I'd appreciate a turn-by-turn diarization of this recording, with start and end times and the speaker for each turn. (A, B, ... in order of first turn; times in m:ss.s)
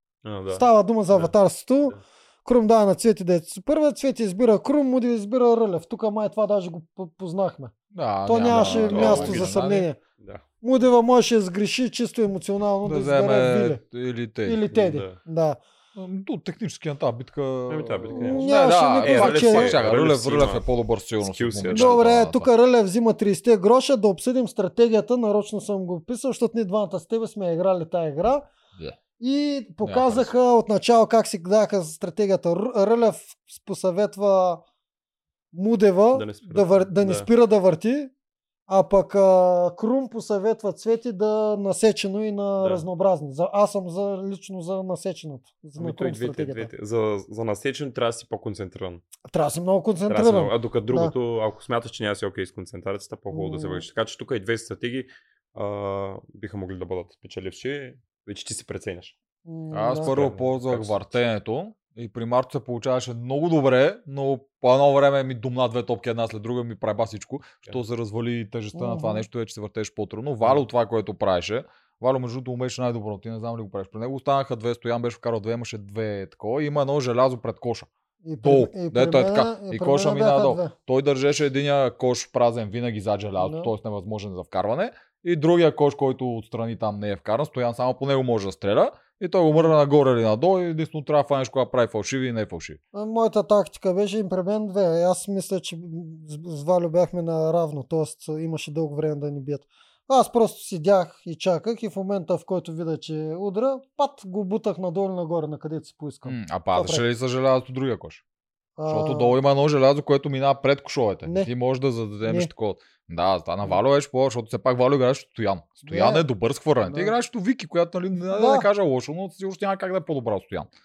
0:00.2-0:01.3 A
0:00.5-0:07.7 B
0:07.9-0:09.9 C
0:08.2-0:10.0 B
0:08.4-0:09.6 A
0:10.2-0:10.4 A
0:10.6-0:13.8 B
0:12.8-0:14.7 C
0:14.4-0:15.6 B
0:14.7-0:15.2 A
0:15.9-0:22.5 C
0:17.7-0:20.6 A
0:18.1-0:19.8 B
0:21.2-0:22.0 A
0:21.7-0:28.5 B
0:29.2-0:34.6 B
0:29.8-0:30.3 C
0:35.5-0:38.1 B
0:36.1-0:37.3 A
0:38.7-0:46.7 B
0:42.6-0:42.8 A
0:45.8-0:49.0 A
0:49.3-0:51.1 B
0:50.1-0:59.1 A
0:53.3-0:53.8 B
0:59.4-1:00.1 B
0:59.7-1:17.9 C
1:00.0-1:01.1 A
1:08.7-1:09.2 B
1:18.2-1:20.7 B
1:18.4-1:32.8 C
1:23.4-1:23.7 B
1:32.9-1:47.0 B
1:46.2-1:48.2 C
1:48.8-1:49.4 B
1:48.9-2:00.7 C
1:52.2-1:52.5 B
1:55.8-1:56.2 B
1:56.8-1:57.1 B
1:58.3-1:58.7 B